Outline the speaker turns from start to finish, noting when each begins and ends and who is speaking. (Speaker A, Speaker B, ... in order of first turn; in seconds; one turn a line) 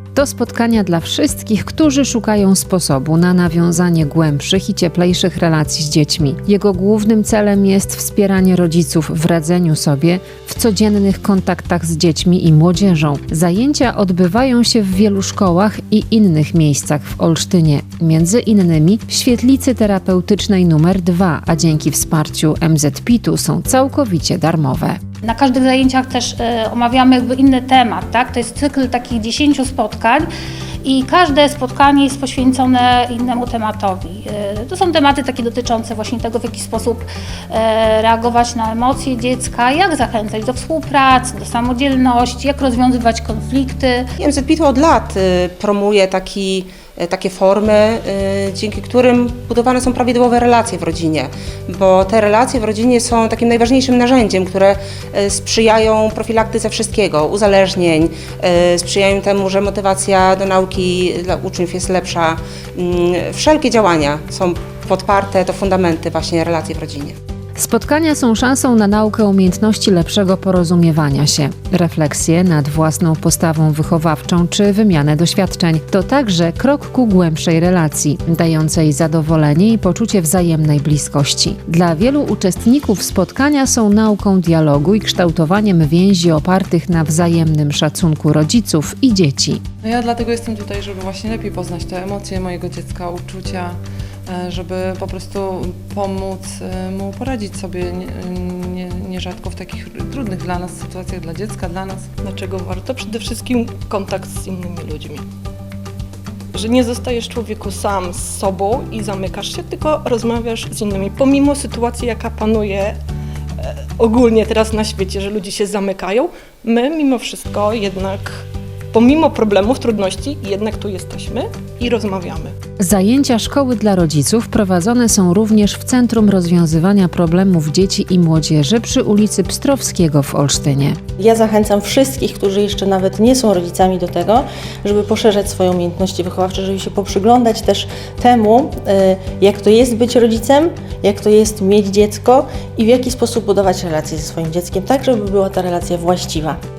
Speaker A: 0.1-25.0
Speaker B: 25.2-30.3
Speaker B: 30.8-44.1
Speaker C: 44.2-67.2
Speaker A: 67.5-89.6
Speaker D: 89.8-93.8
Speaker D: 94.3-102.1
Speaker E: 102.2-105.2
Speaker E: 106.5-113.0
Speaker E: 113.6-122.5
Speaker A: 122.8-131.0
Speaker F: 131.2-146.6